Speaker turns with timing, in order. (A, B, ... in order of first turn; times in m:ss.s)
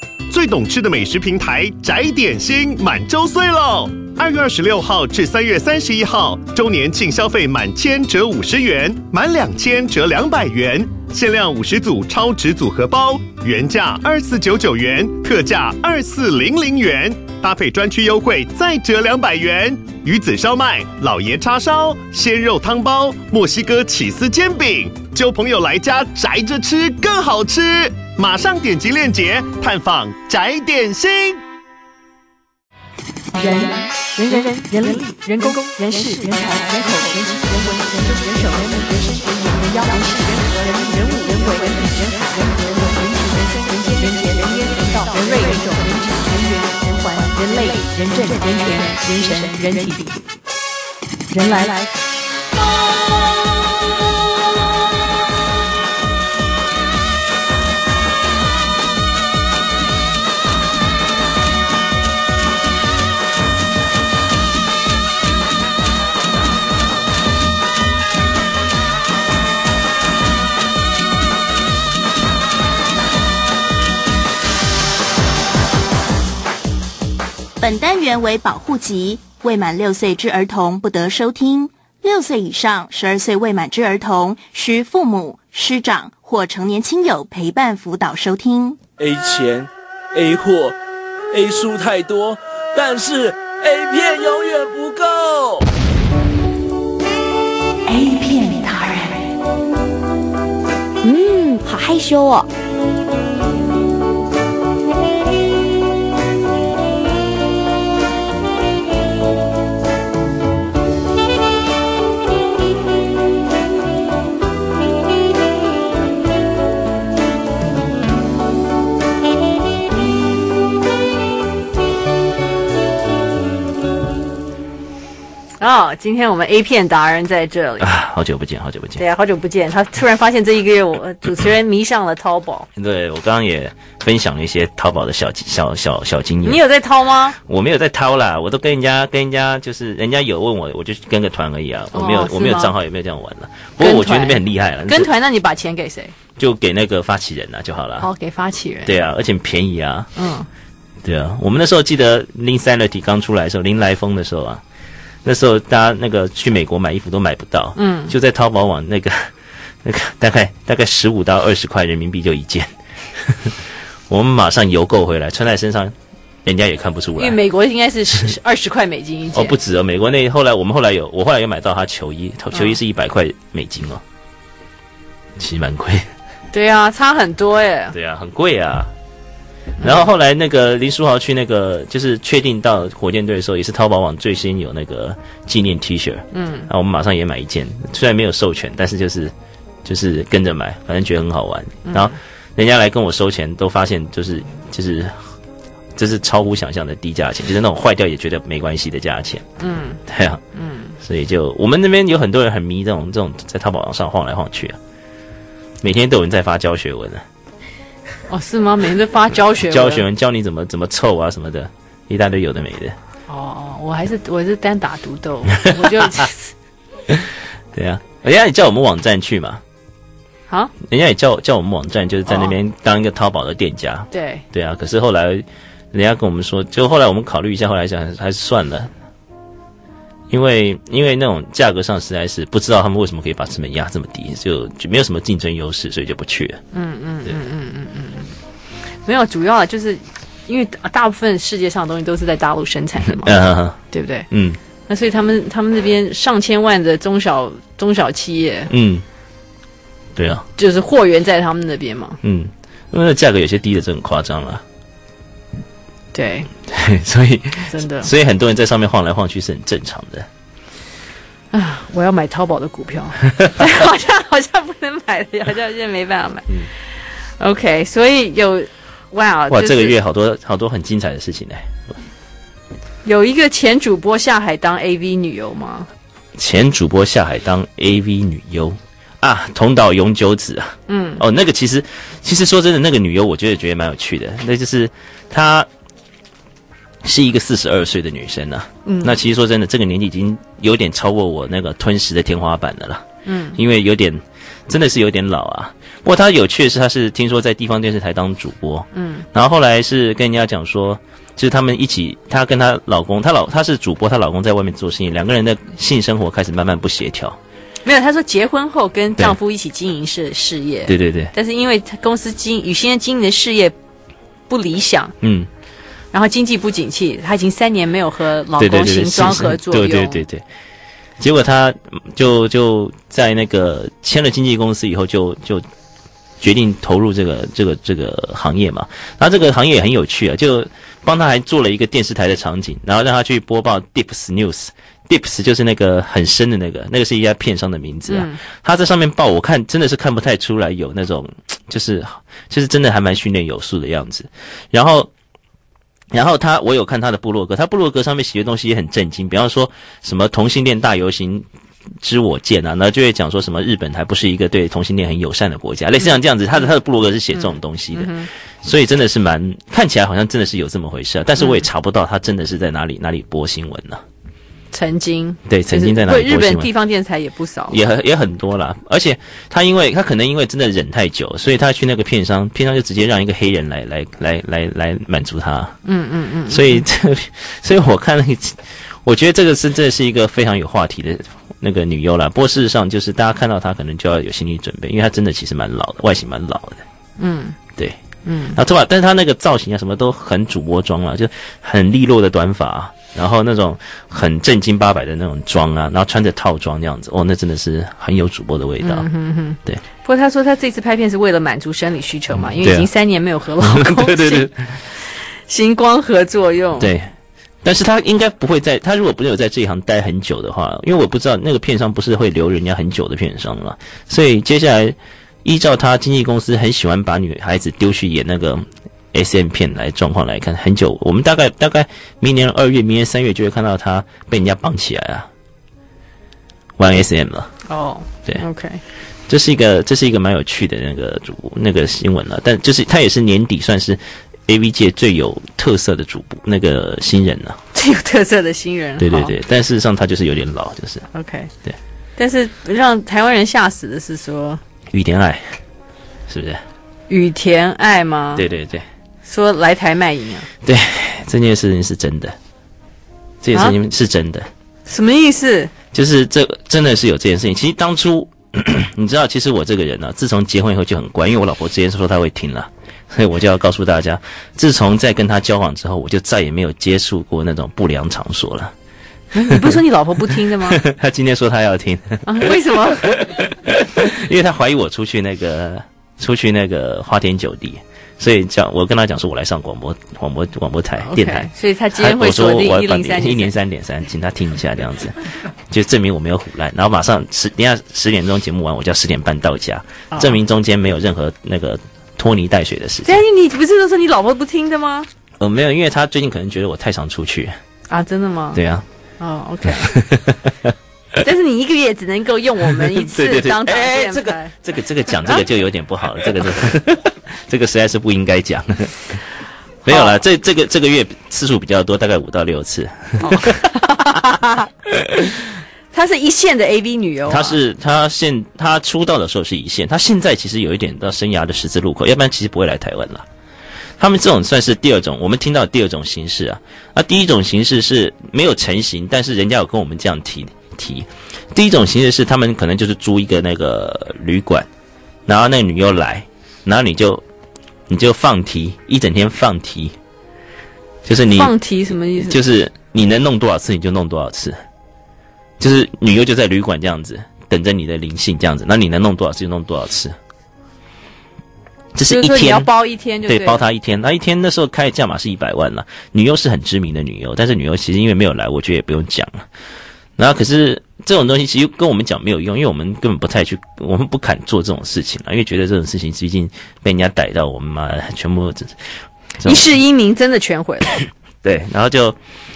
0:00.3-0:31.4 A
0:33.3-0:50.1 B
0:51.3-0:51.9 B
1:17.6-1:28.8 C
1:29.0-1:30.8 D
1:31.3-1:35.6 D
1:37.9-1:38.8 E
1:38.2-1:38.8 C
1:41.0-1:42.5 E
2:05.6-2:07.9 B
2:07.8-2:09.0 F
2:09.0-2:12.7 B
2:12.7-2:16.6 F
2:16.4-2:17.4 B
2:17.4-2:25.1 F
2:21.9-2:22.7 B
2:23.8-2:26.1 B
2:26.4-2:28.1 F
2:28.0-2:28.9 B
2:28.8-2:30.1 F
2:30.2-2:30.5 B
2:31.0-2:34.6 F
2:35.2-2:47.4 F
2:37.8-2:38.1 B
2:47.2-2:49.6 B
2:49.3-2:54.0 F
2:55.4-2:56.1 F
2:56.5-2:57.9 B
2:57.9-2:58.9 F
2:59.8-3:00.0 B
2:59.8-3:09.3 F
3:06.3-3:06.7 B
3:09.8-3:15.3 F
3:11.8-3:12.1 B
3:16.0-3:19.4 F
3:19.6-3:20.0 B
3:20.1-3:20.4 F
3:20.5-3:20.9 B
3:21.0-3:24.8 F
3:25.8-3:27.2 F
3:28.3-3:30.0 B
3:29.6-3:33.0 F
3:33.3-3:36.5 B
3:35.6-3:36.0 F
3:37.1-3:39.6 F
3:40.8-3:48.9 F
3:42.3-3:42.5 B
3:44.1-3:44.4 B
3:50.3-3:56.6 F
3:56.7-3:58.3 B
3:59.0-4:04.2 B
4:03.1-4:03.8 F
4:04.3-4:04.6 F
4:04.9-4:08.7 B
4:08.7-4:09.0 F
4:10.2-4:10.4 F
4:10.6-4:12.2 B
4:12.2-4:14.6 F
4:16.1-4:16.5 B
4:16.7-4:20.3 F
4:17.7-4:18.1 B
4:21.5-4:30.0 B
4:29.5-4:32.0 F
4:33.0-4:35.9 B
4:36.4-4:45.7 F
4:40.9-4:41.2 B
4:47.0-5:07.4 F
4:48.8-4:49.2 B
4:53.2-4:53.6 B
4:58.9-4:59.2 B
5:07.8-5:13.7 B
5:10.9-5:11.3 F
5:14.5-5:15.1 B
5:15.2-5:15.5 F
5:16.1-5:20.2 B
5:18.6-5:20.4 F
5:21.2-5:25.6 F
5:26.4-5:45.1 F
5:38.1-5:38.4 B
5:46.1-5:51.5 F
5:52.0-6:04.0 F
5:57.3-5:58.3 B
6:01.4-6:01.6 B
6:04.7-6:07.8 B
6:05.4-6:06.7 F
6:07.7-6:15.8 F
6:15.8-6:16.8 B
6:16.5-6:26.8 F
6:27.2-6:27.6 B
6:28.2-6:28.6 B
6:28.5-6:39.1 F
6:38.8-6:46.9 B
6:42.3-6:42.9 F
6:43.6-6:44.8 F
6:46.8-6:47.1 F
6:47.6-7:05.3 F
7:06.8-7:07.5 F
7:07.7-7:08.8 B
7:09.3-7:17.6 F
7:17.7-7:19.3 B
7:19.0-7:21.0 F
7:21.1-7:21.5 B
7:22.2-7:24.6 B
7:24.9-7:25.6 F
7:26.3-7:26.6 F
7:27.1-7:28.4 B
7:28.4-7:28.9 F
7:29.2-7:30.5 B
7:30.6-7:32.4 F
7:33.4-7:34.5 F
7:34.8-7:35.7 B
7:35.9-7:48.7 F
7:49.3-7:50.8 B
7:49.5-8:05.2 F
7:52.2-7:53.1 B
8:01.0-8:03.5 B
8:05.7-8:13.2 F
8:13.0-8:15.1 B
8:15.4-8:17.6 F
8:17.9-8:18.6 B
8:18.5-8:18.8 F
8:19.2-8:19.9 B
8:19.6-8:20.7 F
8:21.2-8:24.5 B
8:23.0-8:29.2 F
8:29.8-8:33.6 F
8:29.9-8:30.1 B
8:33.2-8:34.7 B
8:35.9-8:37.6 B
8:37.3-8:43.3 F
8:44.0-8:54.7 F
8:55.2-8:57.2 F
8:57.9-9:00.0 F
9:01.0-9:04.6 F
9:01.3-9:02.4 B
9:05.6-9:10.2 F
9:11.9-9:12.7 F
9:12.1-9:13.6 B
9:13.2-9:19.5 F
9:20.2-9:29.7 F
9:29.4-9:31.0 B
9:31.4-9:32.2 F